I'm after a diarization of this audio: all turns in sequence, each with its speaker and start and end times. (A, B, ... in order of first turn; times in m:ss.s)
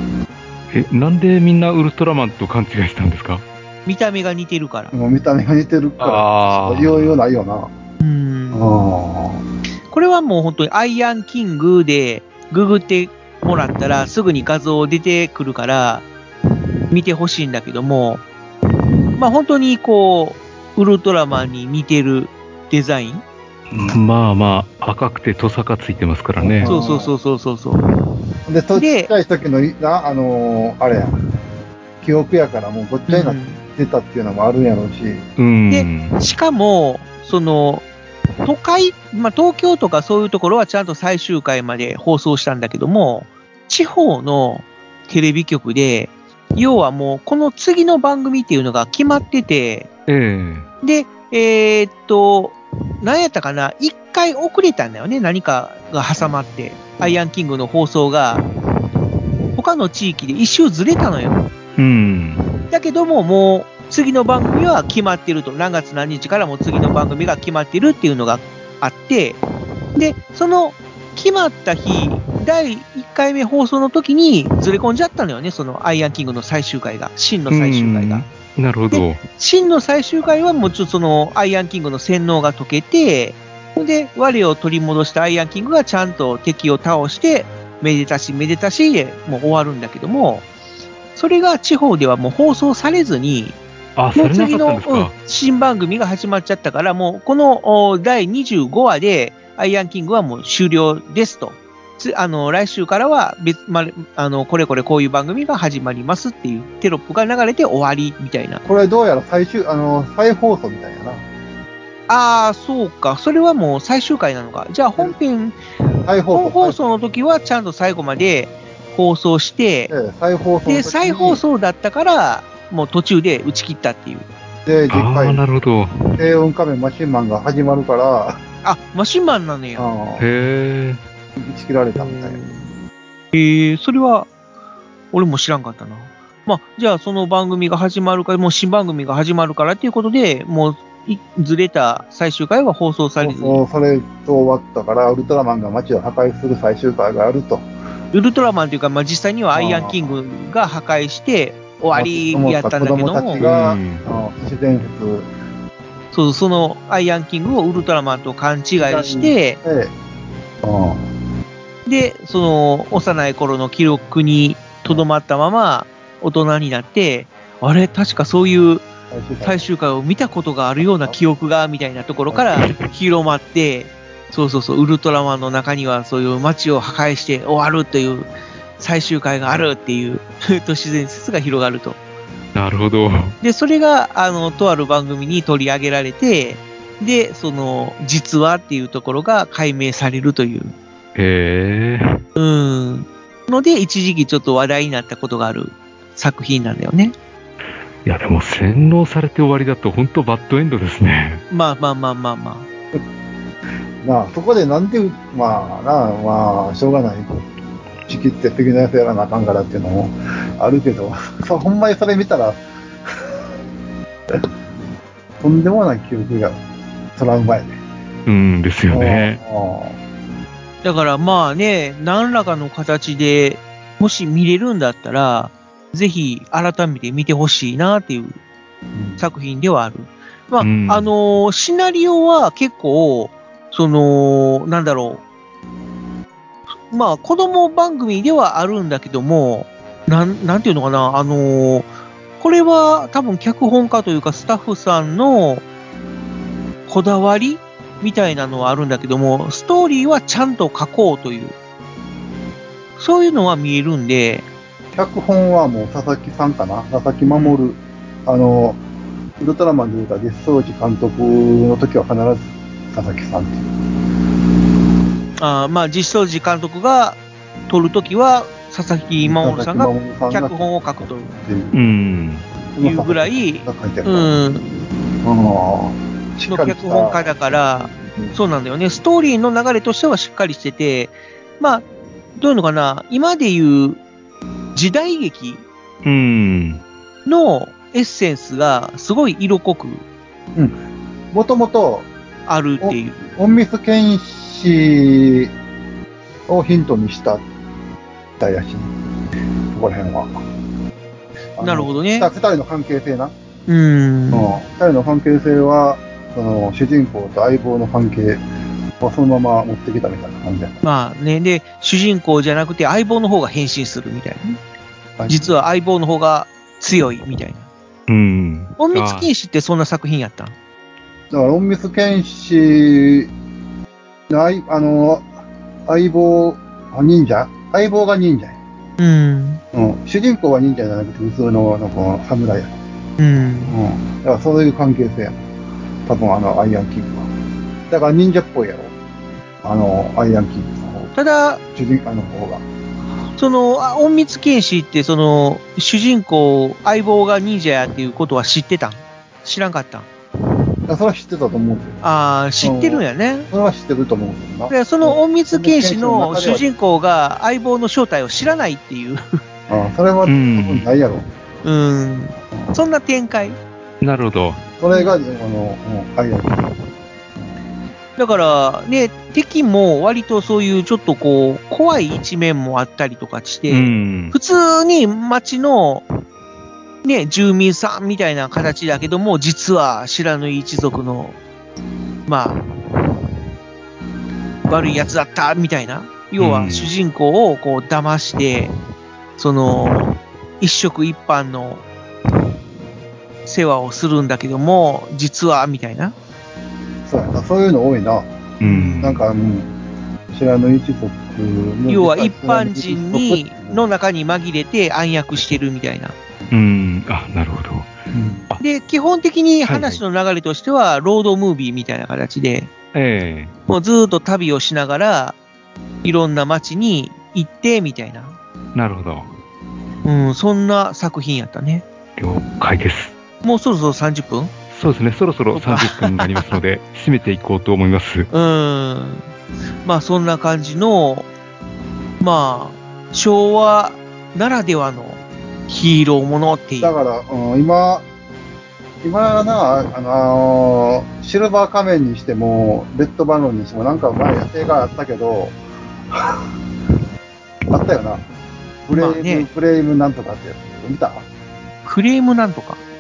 0:00.7-0:03.4 A
0:03.9-0:04.9 B
0:04.9-0:07.7 C
0:06.0-0:07.2 A
0:08.0-0:08.6 B
0:08.5-0:09.4 C
0:09.9-0:16.0 B
0:16.9-0:18.2 B
0:19.2-0:23.2 B
0:23.7-0:26.7 A
0:26.4-0:27.1 C
0:26.6-0:27.8 B
0:28.5-0:31.2 C
0:28.8-0:29.1 B
0:32.0-0:35.3 C
0:33.1-0:33.6 B
0:35.4-0:36.2 A
0:35.7-0:37.8 B
0:38.4-0:49.9 B
0:50.1-0:50.7 A
0:50.8-0:58.4 B
0:59.6-1:01.4 B
1:01.8-1:02.5 A
1:02.7-1:09.4 B
1:10.0-1:18.2 B
1:17.5-1:19.2 A
1:18.9-1:30.4 B
1:31.2-1:33.6 B
1:34.0-1:35.1 A
1:34.2-1:48.6 B
1:48.6-1:51.2 C
1:52.1-1:55.6 B
1:56.0-1:56.8 C
1:56.3-1:59.9 B
1:59.9-2:01.4 C
2:00.7-2:04.3 B
2:04.7-2:05.4 C
2:04.9-2:06.2 A
2:06.2-2:08.4 C
2:08.6-2:09.9 B
2:09.8-2:10.3 C
2:10.2-2:11.0 A
2:11.4-2:12.4 C
2:12.0-2:12.6 B
2:13.3-2:14.3 B
2:15.1-2:23.6 B
2:23.2-2:27.7 C
2:28.1-2:33.4 B
2:29.5-2:30.2 C
2:31.9-2:35.3 C
2:33.4-2:34.0 A
2:36.1-2:39.6 B
2:38.8-2:39.9 C
2:40.6-2:41.1 C
2:41.9-2:48.8 B
2:49.1-2:49.7 C
2:49.4-3:02.0 B
2:50.8-2:51.2 C
2:52.3-2:52.6 C
3:02.6-3:03.3 A
3:03.4-3:10.8 B
3:11.2-3:12.2 A
3:12.4-3:17.1 B
3:18.0-3:21.4 A
3:21.5-3:22.7 B
3:24.0-3:27.4 C
3:28.1-3:32.6 C
3:35.4-3:36.6 C
3:37.2-3:37.8 C
3:38.3-3:39.4 A
3:38.9-3:40.0 C
3:40.8-3:48.4 B
3:48.9-3:49.2 C
3:49.2-3:55.2 B
3:50.6-3:51.1 A
3:56.9-4:01.9 B
4:02.4-4:05.6 B
4:06.9-4:11.5 B
4:13.0-4:14.4 B
4:15.0-4:18.8 C
4:17.3-4:17.6 B
4:19.4-4:23.7 C
4:25.4-4:31.3 B
4:29.2-4:31.8 C
4:31.7-4:32.5 A
4:32.7-4:34.4 C
4:32.8-4:34.7 B
4:35.2-4:38.4 C
4:36.5-4:41.8 B
4:42.4-4:44.0 B
4:44.8-4:45.6 B
4:46.0-4:46.8 A
4:47.3-4:50.0 B
4:51.3-4:52.1 C
4:52.5-4:53.2 B
4:52.8-4:55.5 C
4:56.5-4:57.4 C
4:58.4-4:58.9 C
4:59.7-5:00.4 C
5:01.6-5:03.3 C
5:01.6-5:02.3 B
5:03.7-5:04.5 B
5:04.3-5:08.4 C
5:09.0-5:10.8 C
5:10.8-5:14.6 B
5:15.2-5:15.6 C
5:15.3-5:17.7 B
5:18.1-5:19.3 A
5:18.8-5:20.5 B
5:21.3-5:23.3 C
5:24.3-5:25.3 C
5:25.9-5:28.6 C
5:29.0-5:29.6 B
5:29.7-5:32.8 C
5:33.2-5:33.8 B
5:33.7-5:35.4 C
5:36.1-5:37.3 C
5:37.9-5:38.9 C
5:39.6-5:41.1 C
5:41.2-5:41.6 B
5:41.7-5:42.6 C
5:43.4-5:50.1 B
5:50.9-5:52.0 C
5:52.0-5:53.5 B
5:52.6-5:56.6 C
5:54.7-5:59.2 B
5:59.7-6:01.3 C
6:00.3-6:00.9 A
6:01.6-6:03.6 B
6:02.5-6:02.8 C
6:04.0-6:04.6 A
6:04.8-6:06.7 C
6:08.2-6:16.0 B
6:13.7-6:14.4 A
6:17.0-6:21.4 B
6:22.3-6:22.6 B
6:24.7-6:28.7 B
6:26.4-6:26.9 A
6:29.4-6:31.8 B
6:33.5-6:36.2 B
6:37.0-6:38.3 C
6:38.6-6:39.2 A
6:38.6-6:39.0 B
6:39.0-6:39.7 C
6:40.3-6:43.8 C
6:41.9-6:46.2 B
6:46.5-6:47.9 A
6:48.1-6:48.5 C
6:48.6-6:52.7 B
6:49.6-6:50.0 A
6:52.9-6:53.5 A
6:53.7-6:55.4 B
6:56.0-6:58.4 B
6:58.8-6:59.3 A
7:00.0-7:01.8 B
7:02.2-7:03.1 A
7:03.4-7:04.5 B
7:04.7-7:08.3 A
7:05.5-7:06.4 B
7:08.3-7:09.3 B
7:09.8-7:11.3 B
7:12.2-7:17.0 B
7:16.8-7:18.1 C
7:19.0-7:25.6 C
7:26.1-7:26.4 C
7:27.7-7:28.2 C
7:28.9-7:31.3 C
7:28.9-7:29.5 B
7:31.8-7:32.8 B